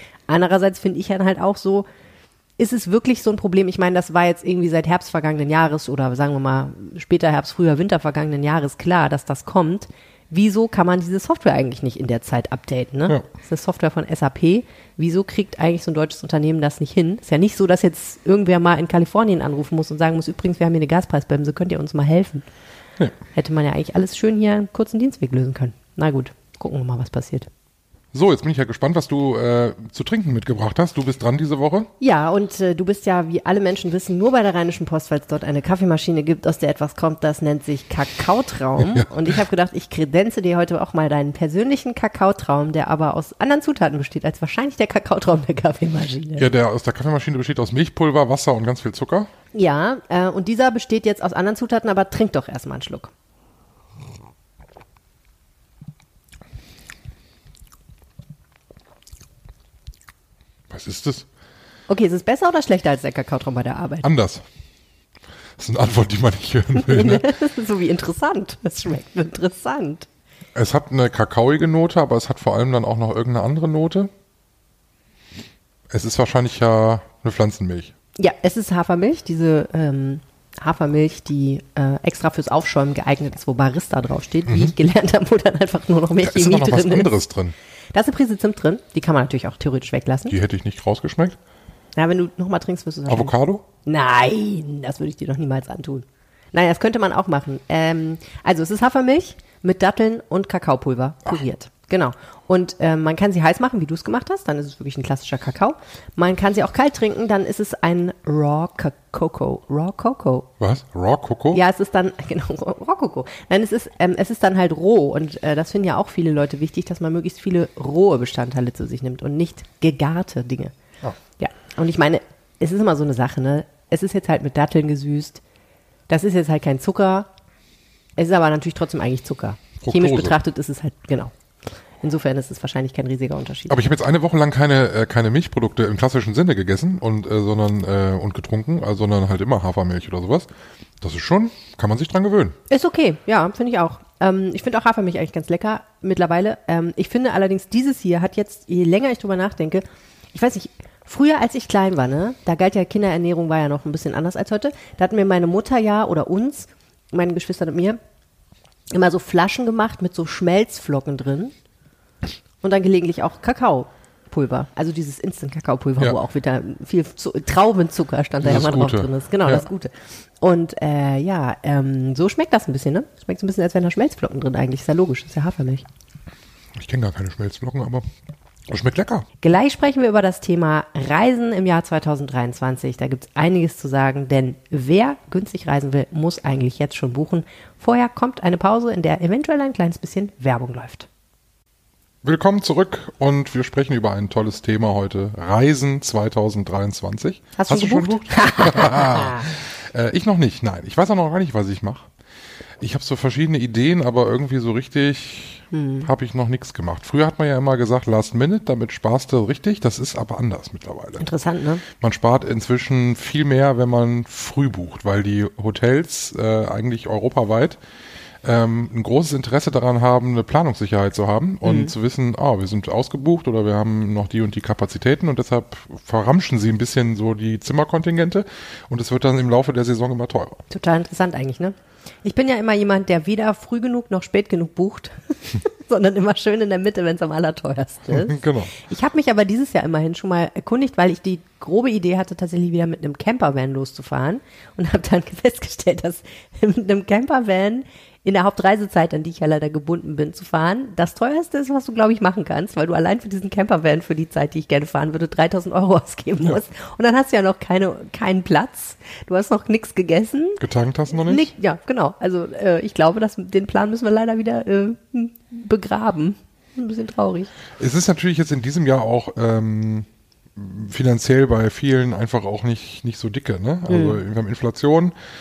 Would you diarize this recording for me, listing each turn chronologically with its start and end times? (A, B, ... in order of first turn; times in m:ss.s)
0:00.3-0:01.9 A
0:02.6-0:22.5 A
0:23.3-0:27.5 A
0:28.1-0:31.9 B
0:32.0-0:46.4 A
0:38.8-0:39.4 B
0:46.4-0:49.3 B
0:49.5-0:53.1 A
1:00.7-1:01.3 B
1:01.9-1:04.1 A
1:04.0-1:04.4 B
1:05.6-1:07.3 B
1:06.8-1:10.1 A
1:10.6-1:14.1 B
1:15.9-1:17.9 B
1:18.2-1:27.1 A
1:24.5-1:24.7 B
1:26.2-1:27.6 B
1:27.9-1:30.3 A
1:30.3-1:31.4 B
1:32.0-1:33.3 A
1:33.1-1:33.6 B
1:33.8-1:50.5 A
1:50.6-1:51.6 B
1:51.5-2:00.8 A
2:01.4-2:05.4 A
2:06.1-2:07.3 A
2:08.2-2:11.3 A
2:09.8-2:10.4 B
2:12.0-2:13.8 A
2:13.7-2:20.5 B
2:21.0-2:22.6 B
2:22.7-2:38.0 A
2:38.9-2:41.5 A
2:42.6-2:55.9 A
2:48.4-2:49.6 B
2:56.8-2:58.0 B
2:58.7-2:59.3 B
2:59.4-3:11.1 A
3:12.2-3:22.1 B
3:17.6-3:19.6 A
3:22.8-3:31.3 B
3:25.7-3:26.1 A
3:31.2-3:31.8 A
3:31.9-3:37.8 B
3:38.4-3:50.6 B
3:41.6-3:41.9 A
3:50.7-4:27.5 A
3:58.1-3:58.7 B
4:20.6-4:21.5 B
4:27.8-4:35.1 B
4:33.9-4:34.2 A